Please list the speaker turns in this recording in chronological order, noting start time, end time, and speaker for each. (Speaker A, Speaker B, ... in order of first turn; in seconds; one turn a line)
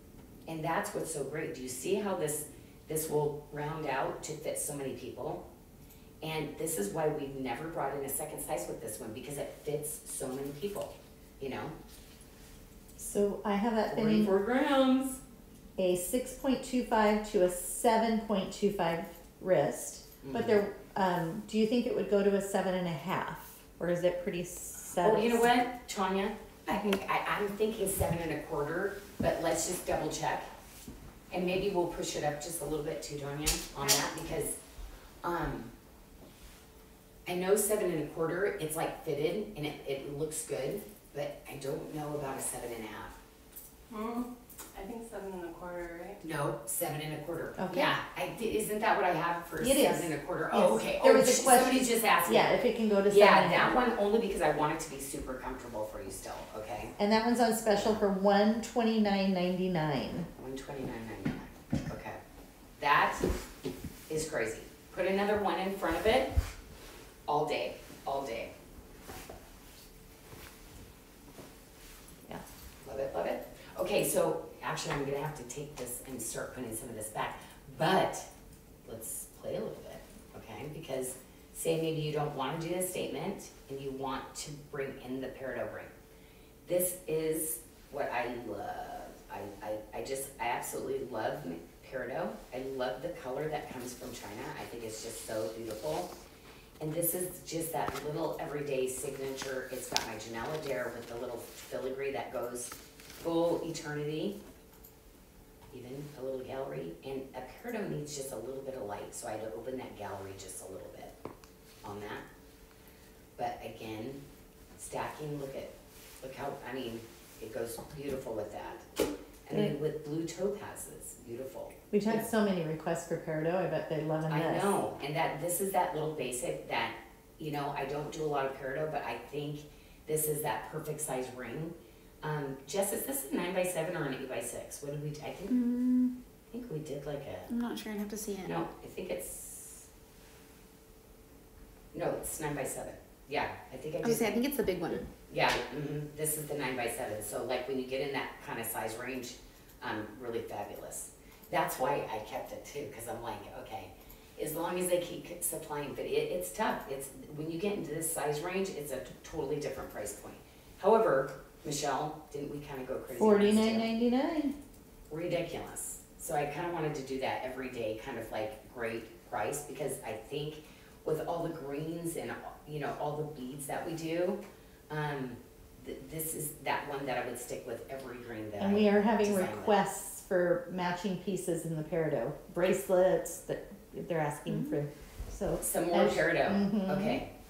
Speaker A: 0.5-5.4
Speaker A: 6.2-11.8
Speaker B: 13.0-14.3
Speaker A: 13.9-15.2
Speaker B: 15.8-25.5
Speaker A: 20.2-20.6
Speaker A: 25.0-30.5
Speaker A: 31.3-34.6
Speaker A: 35.2-35.7
Speaker A: 37.2-43.2
Speaker C: 43.9-46.2
Speaker A: 46.2-52.5
Speaker B: 47.6-47.9
Speaker B: 49.6-53.8
Speaker A: 53.1-56.9
Speaker B: 57.0-60.3
Speaker A: 60.4-62.2
Speaker A: 62.8-63.4
Speaker A: 64.1-66.3
Speaker A: 67.3-68.5
Speaker A: 72.8-78.3
Speaker A: 78.8-85.9
Speaker A: 86.6-96.1
Speaker A: 96.8-104.4
Speaker A: 105.7-111.1
Speaker A: 111.8-112.2
Speaker A: 113.4-114.2
Speaker A: 114.8-118.9
Speaker A: 119.5-122.3
Speaker B: 121.9-124.8
Speaker A: 124.3-135.6
Speaker D: 135.5-136.2
Speaker A: 136.5-137.5
Speaker D: 137.5-138.6
Speaker A: 138.4-139.9
Speaker A: 141.9-144.4
Speaker D: 144.0-145.1
Speaker A: 145.3-163.9
Speaker B: 163.2-164.5
Speaker A: 165.1-179.8
Speaker B: 178.6-187.2
Speaker A: 185.6-187.3